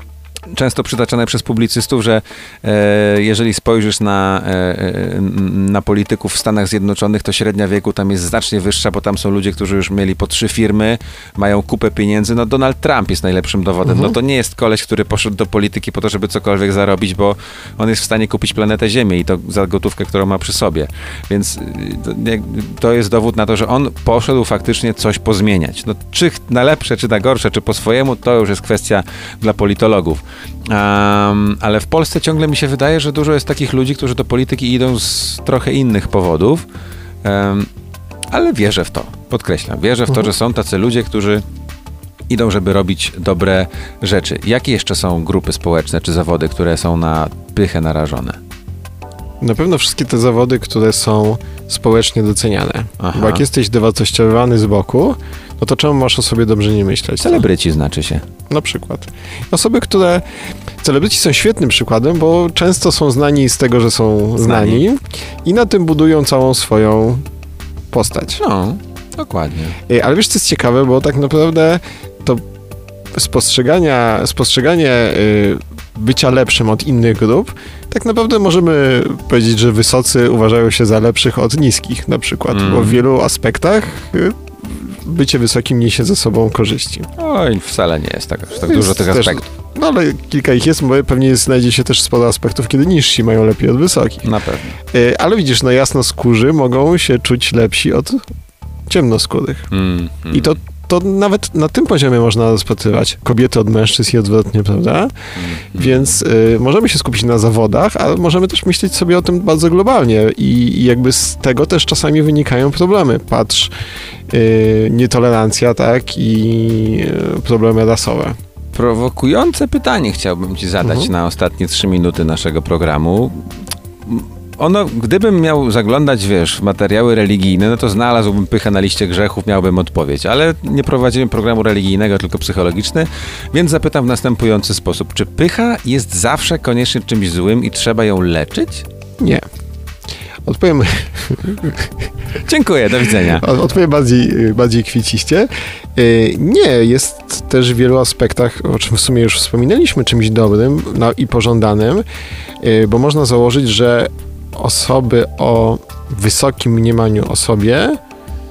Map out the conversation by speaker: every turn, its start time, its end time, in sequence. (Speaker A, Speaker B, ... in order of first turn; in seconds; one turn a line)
Speaker A: 0.5-36.6
Speaker B: 13.8-14.2
Speaker A: 37.2-37.7
Speaker A: 38.3-41.4
Speaker A: 42.3-48.4
Speaker B: 49.4-57.5
Speaker A: 53.0-53.5
Speaker A: 57.2-58.2
Speaker B: 58.5-60.2
Speaker B: 60.8-67.3
Speaker A: 64.4-64.8
Speaker B: 67.9-68.4
Speaker A: 68.4-69.8
Speaker B: 69.9-72.4
Speaker B: 73.1-87.1
Speaker A: 82.5-83.0
Speaker A: 87.2-89.5
Speaker B: 88.7-94.3
Speaker A: 94.2-94.8
Speaker B: 94.9-98.3
Speaker B: 98.9-99.7
Speaker A: 99.7-100.5
Speaker B: 100.3-113.7
Speaker A: 105.4-106.2
Speaker B: 114.3-118.4
Speaker A: 118.7-123.5
Speaker B: 120.8-121.1
Speaker A: 124.0-138.9
Speaker B: 139.2-139.4
Speaker B: 140.4-142.1
Speaker A: 142.4-143.5
Speaker B: 143.2-152.1
Speaker B: 152.6-158.0